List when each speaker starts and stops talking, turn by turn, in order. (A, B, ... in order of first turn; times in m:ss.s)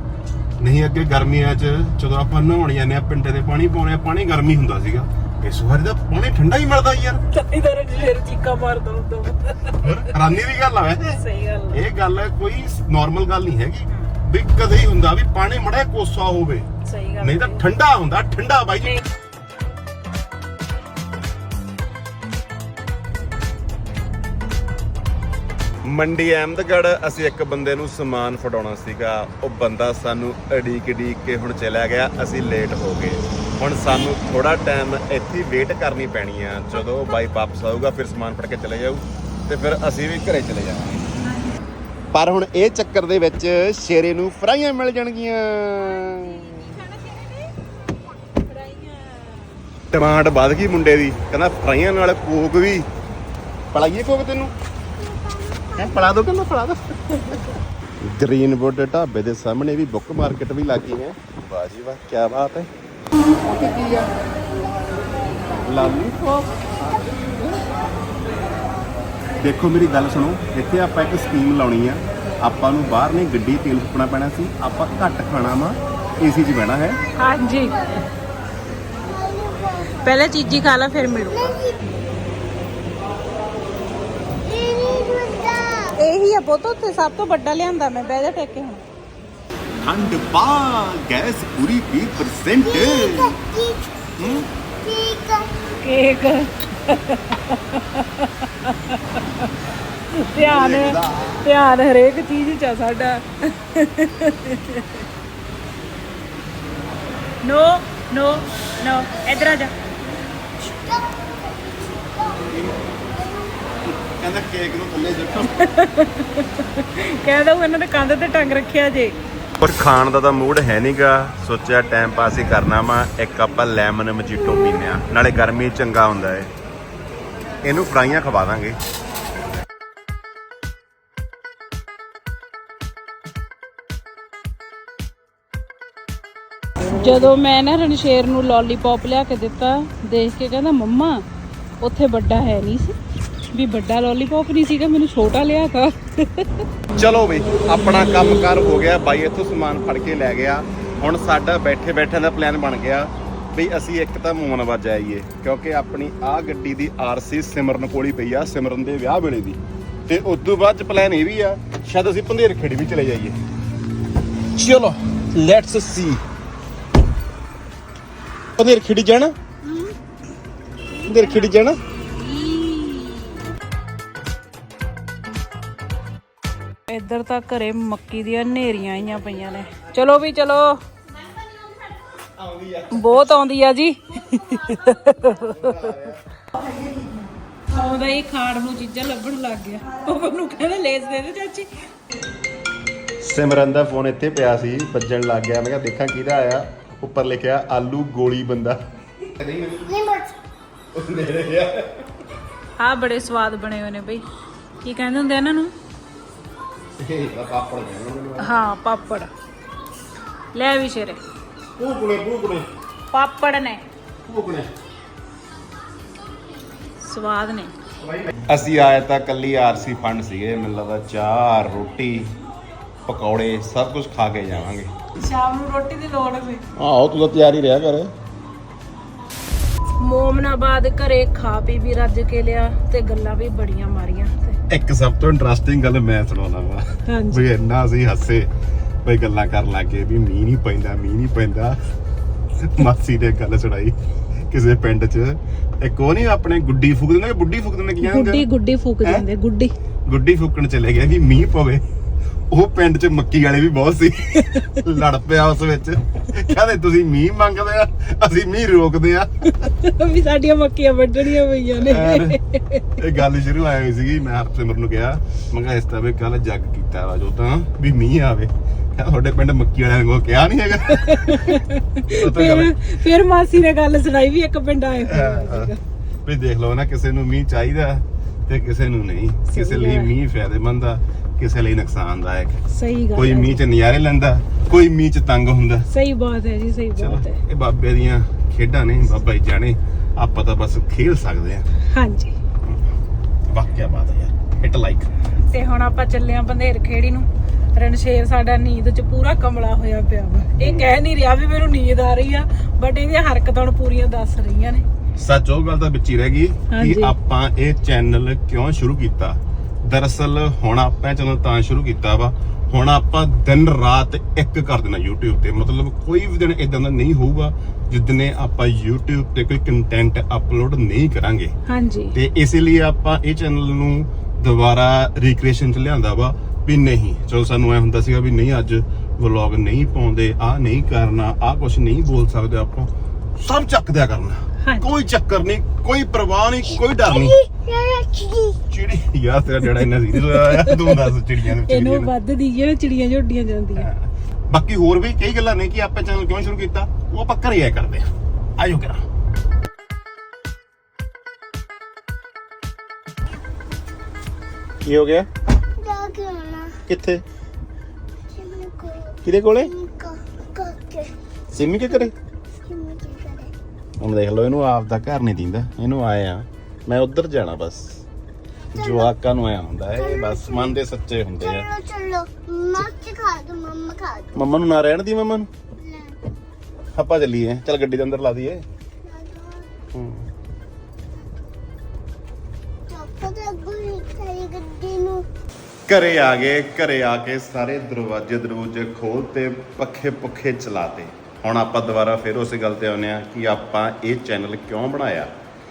0:00.6-0:07.2 A
0:07.2-0:10.1 B
0:09.8-0:16.7 A
0:11.2-0:11.8 B
0:16.8-0:17.6 B
0:17.2-0:19.0 A
0:25.8-0:41.1 A
0:36.7-0:37.3 B
0:41.2-0:41.6 B
0:42.1-0:46.8 A
0:45.8-0:47.5 B
0:48.4-0:49.6 B
0:49.9-0:52.9 A
0:53.7-0:54.5 A
0:54.9-0:56.2 C
0:55.8-0:56.9 A
0:58.0-1:02.7 A
1:03.4-1:04.1 A
1:05.6-1:07.6 A
1:09.4-1:17.0 A
1:17.2-1:18.0 B
1:19.0-1:20.2 C
1:19.9-1:21.6 B
1:21.3-1:21.8 C
1:24.4-1:26.0 C
1:26.0-1:28.8 B
1:29.8-1:33.4 A
1:32.6-1:33.9 C
1:34.2-1:34.5 A
1:34.8-1:35.6 C
1:35.8-1:39.5 B
1:40.1-1:45.0 B
1:40.4-1:41.5 A
1:47.4-1:49.7 B
1:50.6-1:53.5 C
1:52.5-1:52.8 A
1:54.0-1:55.5 A
1:55.6-1:59.2 B
1:59.6-2:06.5 A
2:07.6-2:08.8 A
2:17.0-2:21.2 B
2:21.8-2:23.0 B
2:23.5-2:26.6 B
2:27.0-2:43.4 A
2:44.5-2:46.2 A
2:48.6-2:49.3 A
2:49.6-2:50.0 C
2:51.0-2:51.8 A
2:52.4-2:53.3 B
2:56.9-3:00.8 B
3:02.3-3:03.4 A
3:02.9-3:05.9 B
3:05.3-3:06.2 A
3:07.7-3:11.7 B
3:13.2-3:18.8 A
3:19.4-3:19.9 A
3:19.8-3:20.3 C
3:20.9-3:22.1 A
3:22.8-3:24.3 B
3:24.8-3:25.7 B
3:27.0-3:28.5 A
3:28.4-3:29.3 B
3:30.5-3:31.2 B
3:31.6-3:32.7 A
3:33.1-3:33.8 B
3:34.2-3:34.7 A
3:37.0-3:37.7 B
3:38.0-3:42.3 A
3:43.1-3:44.9 A
3:45.2-3:46.6 B
3:46.7-3:48.1 A
3:50.0-3:54.6 B
3:54.7-3:58.5 A
3:57.1-3:57.4 B
3:59.0-4:01.8 A
4:02.6-4:04.0 A
4:04.5-4:08.4 A
4:08.0-4:09.7 B
4:10.1-4:11.8 A
4:12.5-4:19.7 A
4:19.7-4:23.0 B
4:21.8-4:22.4 A
4:23.0-4:33.0 A
4:30.9-4:35.8 B
4:35.0-4:42.6 A
4:39.5-4:40.1 B
4:42.7-4:43.6 B
4:43.1-4:45.9 A
4:45.9-4:47.4 B
4:47.0-4:51.6 A
4:51.9-4:52.3 B
4:52.6-4:52.9 A
4:53.4-4:55.1 A
4:55.5-5:04.8 B
5:00.6-5:00.9 A
5:05.2-5:21.5 A
5:06.7-5:07.1 B
5:21.7-5:22.1 B
5:22.1-5:37.4 A
5:34.6-5:34.9 B
5:37.0-5:38.6 C
5:38.7-5:42.1 A
5:40.1-5:43.9 B
5:43.7-5:49.0 A
5:54.8-5:55.3 A
5:55.8-5:56.8 C
5:56.8-5:57.2 A
5:58.3-6:01.1 C
5:59.2-5:59.7 A
6:01.5-6:02.1 A
6:02.6-6:03.5 C
6:04.0-6:08.0 A
6:08.7-6:09.1 C
6:08.7-6:11.7 A
6:09.9-6:10.8 C
6:11.4-6:14.5 C
6:14.3-6:15.5 A
6:15.8-6:16.2 C
6:16.9-6:18.6 A
6:19.0-6:19.7 C
6:19.9-6:20.3 A
6:22.9-6:25.2 C
6:25.9-6:35.3 A